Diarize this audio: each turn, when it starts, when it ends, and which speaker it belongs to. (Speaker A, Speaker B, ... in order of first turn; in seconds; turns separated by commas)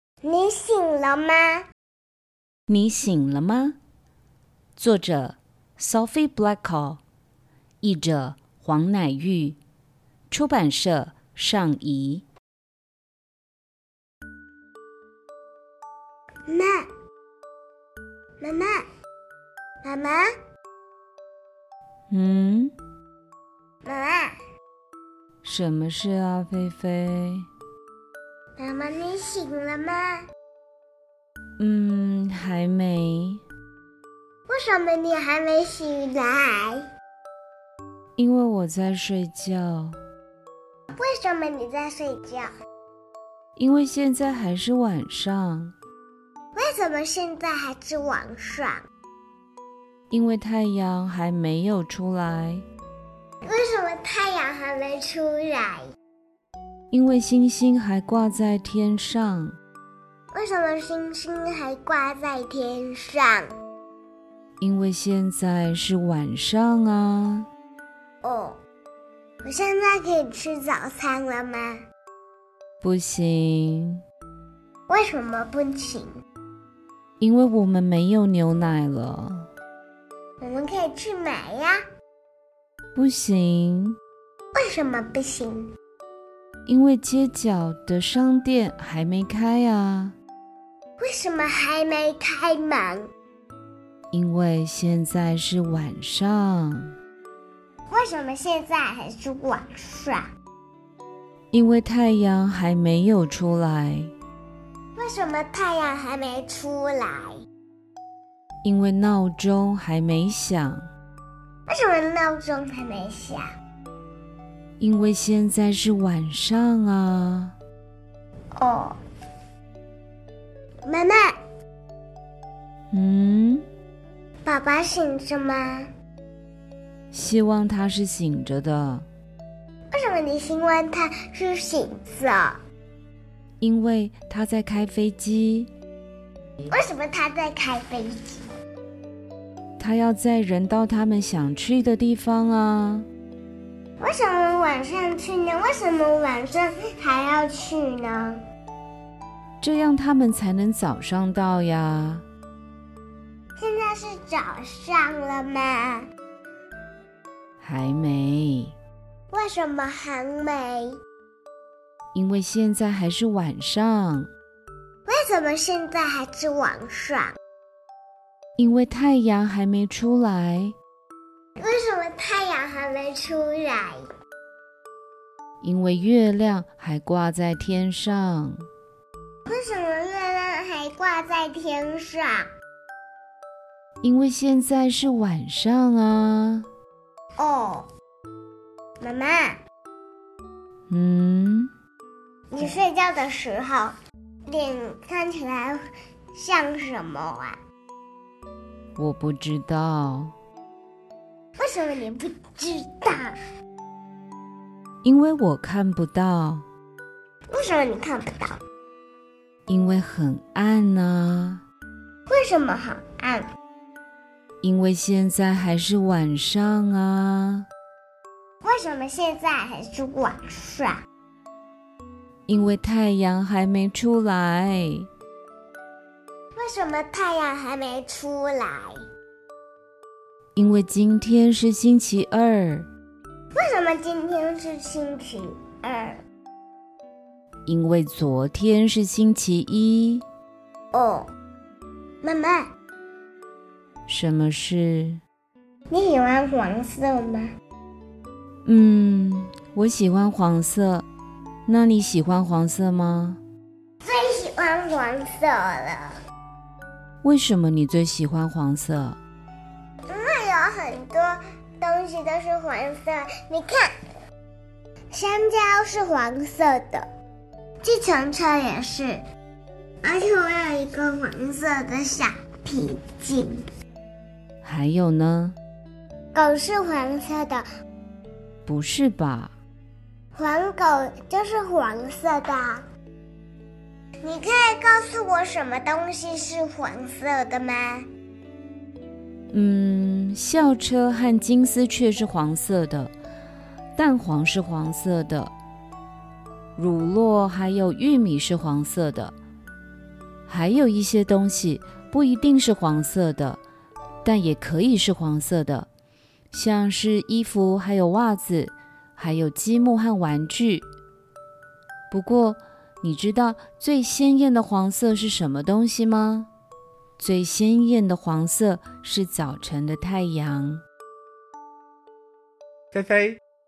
Speaker A: 0.2-1.6, Speaker B: 2.7-3.8, Speaker B: 4.8-7.0, Speaker B: 7.8-9.6, Speaker B: 10.3-12.2, Speaker A: 16.5-16.9, Speaker A: 18.4-18.8, Speaker A: 19.8-20.3, Speaker B: 22.1-22.7, Speaker A: 23.8-24.4, Speaker B: 25.4-27.5, Speaker A: 28.6-30.2, Speaker B: 31.6-33.4, Speaker A: 34.5-36.9, Speaker B: 38.2-40.0, Speaker A: 41.0-42.5, Speaker B: 43.6-45.7, Speaker A: 46.5-48.9, Speaker B: 50.1-52.6, Speaker A: 53.4-55.9, Speaker B: 56.9-59.6, Speaker A: 60.3-63.5, Speaker B: 64.6-67.5, Speaker A: 68.2-68.6, Speaker A: 69.4-71.8, Speaker B: 72.8-74.0, Speaker A: 74.9-76.1, Speaker B: 77.2-79.5, Speaker A: 80.4-81.8, Speaker B: 83.0-84.0, Speaker A: 84.5-85.7, Speaker B: 86.7-90.2, Speaker A: 91.0-93.1, Speaker B: 94.1-96.9, Speaker A: 97.9-100.3, Speaker B: 101.5-104.1, Speaker A: 105.0-107.4, Speaker B: 108.6-110.9, Speaker A: 111.7-113.5, Speaker B: 114.8-117.5, Speaker A: 118.5-119.0, Speaker A: 120.9-121.3, Speaker B: 122.9-123.7, Speaker A: 124.5-125.9, Speaker B: 127.1-129.1, Speaker A: 129.9-132.6, Speaker B: 133.6-135.7, Speaker A: 136.7-138.5, Speaker B: 139.8-143.1, Speaker A: 144.0-148.4, Speaker B: 149.6-152.2, Speaker A: 153.6-156.1, Speaker B: 157.6-158.8, Speaker A: 159.3-161.0, Speaker B: 162.1-164.3, Speaker A: 165.1-167.4, Speaker B: 168.6-170.8, Speaker A: 171.6-174.1, Speaker B: 175.6-178.7, Speaker A: 179.5-182.5, Speaker B: 184.0-186.7, Speaker A: 187.4-187.9, Speaker A: 189.0-189.6, Speaker B: 190.9-191.7, Speaker A: 192.5-193.9, Speaker A: 194.5-195.8, Speaker A: 196.3-197.6, Speaker B: 199.0-200.3, Speaker A: 201.6-203.4, Speaker B: 205.0-206.7, Speaker A: 207.5-208.6, Speaker B: 209.7-211.6, Speaker A: 212.3-213.5, Speaker B: 214.6-217.7, Speaker A: 218.6-221.0, Speaker B: 222.5-225.1, Speaker A: 226.6-229.0, Speaker B: 230.6-232.9, Speaker A: 233.5-236.2, Speaker B: 237.7-240.2, Speaker A: 240.9-241.3, Speaker A: 242.2-242.7, Speaker B: 244.1-245.2, Speaker A: 245.9-247.5, Speaker B: 248.7-251.1, Speaker B: 251.7-253.4, Speaker A: 254.0-256.2, Speaker B: 257.2-259.2, Speaker A: 260.1-263.9, Speaker A: 265.1-267.1, Speaker A: 267.8-269.2, Speaker A: 270.0-273.6, Speaker B: 274.6-275.6, Speaker A: 276.3-277.6, Speaker B: 278.7-279.5, Speaker A: 280.3-282.8, Speaker A: 284.2-288.1, Speaker B: 289.5-293.1, Speaker B: 294.0-295.5, Speaker B: 296.8-299.4, Speaker B: 300.5-303.6, Speaker B: 304.2-305.9, Speaker B: 306.5-310.9, Speaker B: 312.1-316.5, Speaker B: 317.2-320.8